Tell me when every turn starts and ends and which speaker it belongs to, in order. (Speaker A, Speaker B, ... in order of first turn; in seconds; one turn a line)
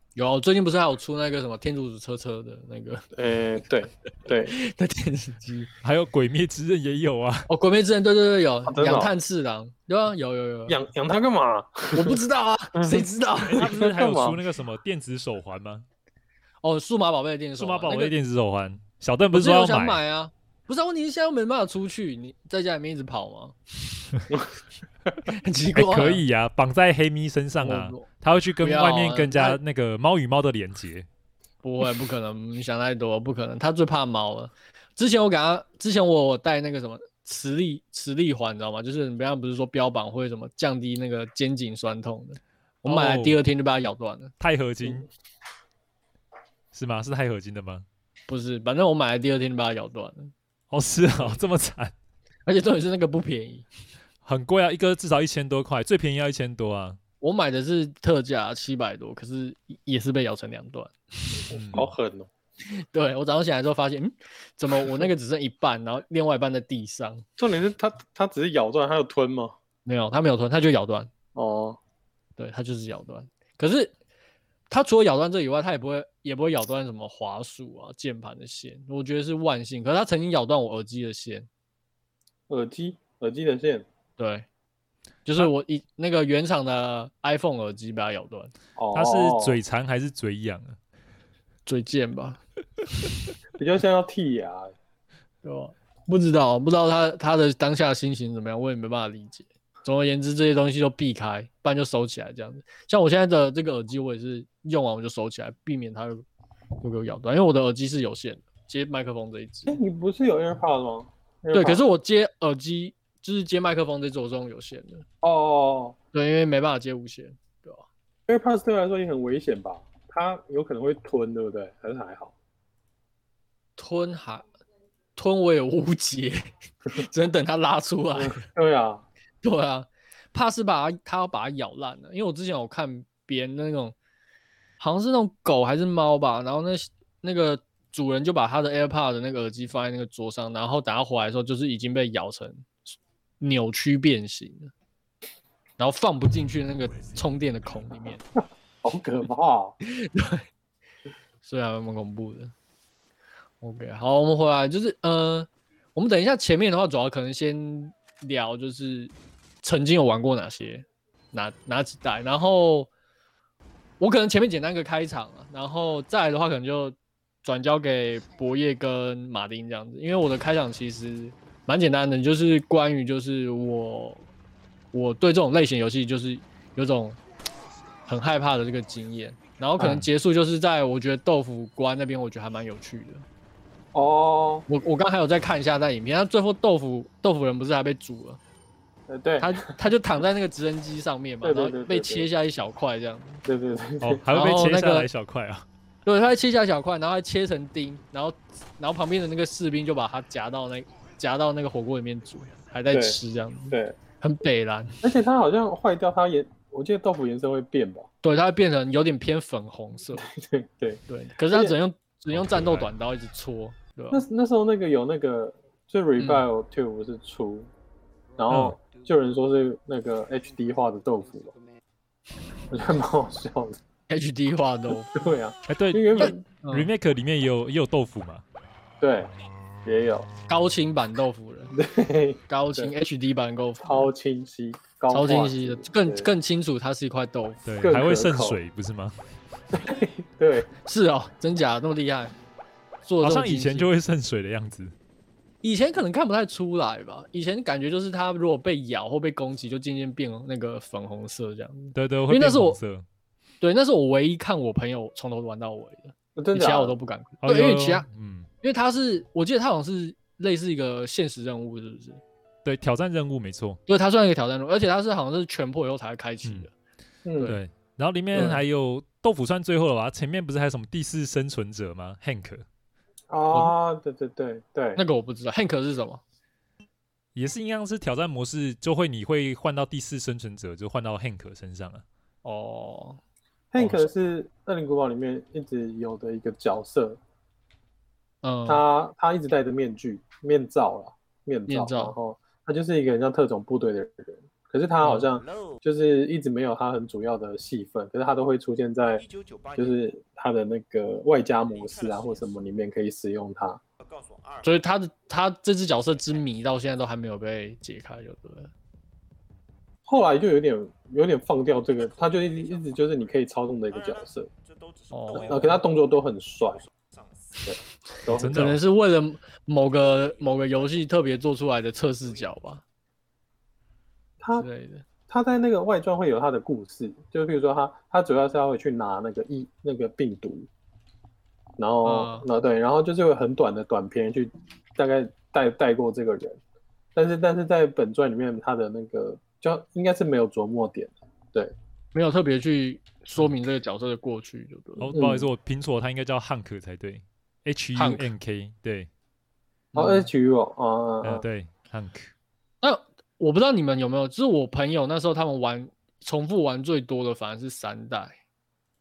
Speaker A: 0.1-3.0
Speaker B: 3.1-4.6
Speaker A: 4.5-5.7
Speaker C: 5.8-7.5
Speaker A: 7.5-10.8
Speaker B: 8.7-9.1
Speaker B: 10.7-12.2
Speaker A: 11.9-13.7
Speaker B: 12.8-14.4
Speaker C: 13.5-15.8
Speaker A: 16.6-18.1
Speaker C: 17.6-20.0
Speaker A: 19.3-23.6
Speaker A: 25.3-26.2
Speaker C: 25.8-31.1
Speaker A: 27.6-28.1
Speaker A: 28.6-29.6
Speaker A: 31.6-44.3
Speaker C: 42.9-43.4
Speaker C: 44.4-45.1
Speaker C: 46.7-47.9
Speaker A: 48.3-50.3
Speaker C: 50.7-51.9
Speaker A: 52.5-53.7
Speaker C: 54.2-57.0
Speaker A: 57.2-61.5
Speaker C: 61.5-61.9
Speaker B: 61.5-62.3
Speaker A: 62.7-67.2
Speaker B: 67.4-69.6
Speaker A: 69.8-71.1
Speaker B: 71.3-71.8
Speaker A: 72.4-73.9
Speaker A: 74.7-81.5
Speaker B: 82.5-83.8
Speaker A: 84.2-84.5
Speaker A: 85.3-88.5
Speaker B: 88.8-89.6
Speaker C: 88.9-90.8
Speaker A: 91.7-92.4
Speaker B: 93.6-94.7
Speaker A: 95.4-106.2
Speaker A: 106.8-109.8
Speaker B: 109.7-111.8
Speaker A: 111.5-115.0
Speaker B: 115.2-116.0
Speaker A: 116.1-117.9
Speaker B: 118.3-122.3
Speaker A: 123.8-124.5
Speaker A: 125.2-128.5
Speaker B: 128.2-129.1
Speaker A: 129.4-134.0
Speaker A: 134.8-142.7
Speaker A: 143.4-144.7
Speaker A: 145.8-148.2
Speaker B: 148.8-149.8
Speaker A: 149.9-150.4
Speaker A: 151.4-152.5
Speaker A: 153.6-162.9
Speaker A: 164.0-174.3
Speaker A: 174.9-177.2
Speaker A: 178.1-183.2
Speaker C: 179.8-180.1
Speaker B: 183.9-184.7
Speaker A: 184.7-188.4
Speaker B: 189.1-189.8
Speaker A: 189.4-193.4
Speaker B: 191.4-192.3
Speaker B: 193.4-194.2
Speaker C: 194.0-195.7
Speaker A: 194.3-195.1
Speaker A: 196.1-205.0
Speaker B: 202.9-203.2
Speaker B: 203.7-204.0
Speaker B: 205.0-208.1
Speaker A: 208.2-210.3
Speaker B: 210.2-211.8
Speaker A: 211.1-214.2
Speaker C: 212.3-212.9
Speaker B: 214.1-217.7
Speaker A: 216.2-216.5
Speaker B: 218.4-221.6
Speaker C: 218.5-218.8
Speaker B: 222.7-223.8
Speaker A: 224.1-225.2
Speaker B: 225.1-226.5
Speaker C: 225.7-228.4
Speaker A: 226.2-226.9
Speaker B: 229.0-229.3
Speaker B: 229.8-230.3
Speaker A: 230.5-231.7
Speaker B: 231.7-232.9
Speaker A: 232.5-234.1
Speaker B: 233.8-236.3
Speaker A: 235.1-237.6
Speaker C: 237.7-239.2
Speaker B: 237.8-238.6
Speaker B: 239.7-240.7
Speaker A: 240.8-242.3
Speaker A: 243.0-243.9
Speaker C: 243.2-244.9
Speaker A: 245.6-252.8
Speaker C: 251.9-253.1
Speaker A: 253.6-258.1
Speaker B: 256.4-257.0
Speaker C: 257.4-258.5
Speaker A: 258.6-262.2
Speaker C: 262.6-263.8
Speaker A: 263.9-266.7
Speaker B: 267.2-267.6
Speaker C: 267.4-272.6
Speaker A: 268.4-268.6
Speaker B: 273.3-275.0
Speaker A: 275.0-276.2
Speaker C: 277.4-282.0
Speaker A: 282.4-283.2
Speaker B: 283.7-287.2
Speaker A: 283.8-284.1
Speaker A: 288.4-288.8
Speaker B: 288.7-303.8
Speaker A: 291.7-292.2
Speaker A: 295.0-295.3
Speaker A: 304.6-308.7
Speaker B: 310.1-314.5
Speaker A: 315.1-315.8
Speaker B: 315.5-316.8
Speaker B: 317.6-318.7
Speaker C: 318.3-318.8
Speaker A: 318.5-322.8
Speaker B: 324.4-324.7
Speaker A: 324.6-325.1
Speaker B: 325.3-330.7
Speaker B: 331.8-336.6
Speaker A: 332.0-332.5
Speaker B: 337.1-341.7
Speaker A: 342.1-345.1
Speaker C: 345.0-349.1
Speaker B: 345.1-345.5
Speaker A: 348.0-348.3
Speaker A: 349.9-350.3
Speaker B: 349.9-351.4
Speaker C: 351.2-352.3
Speaker A: 352.8-358.4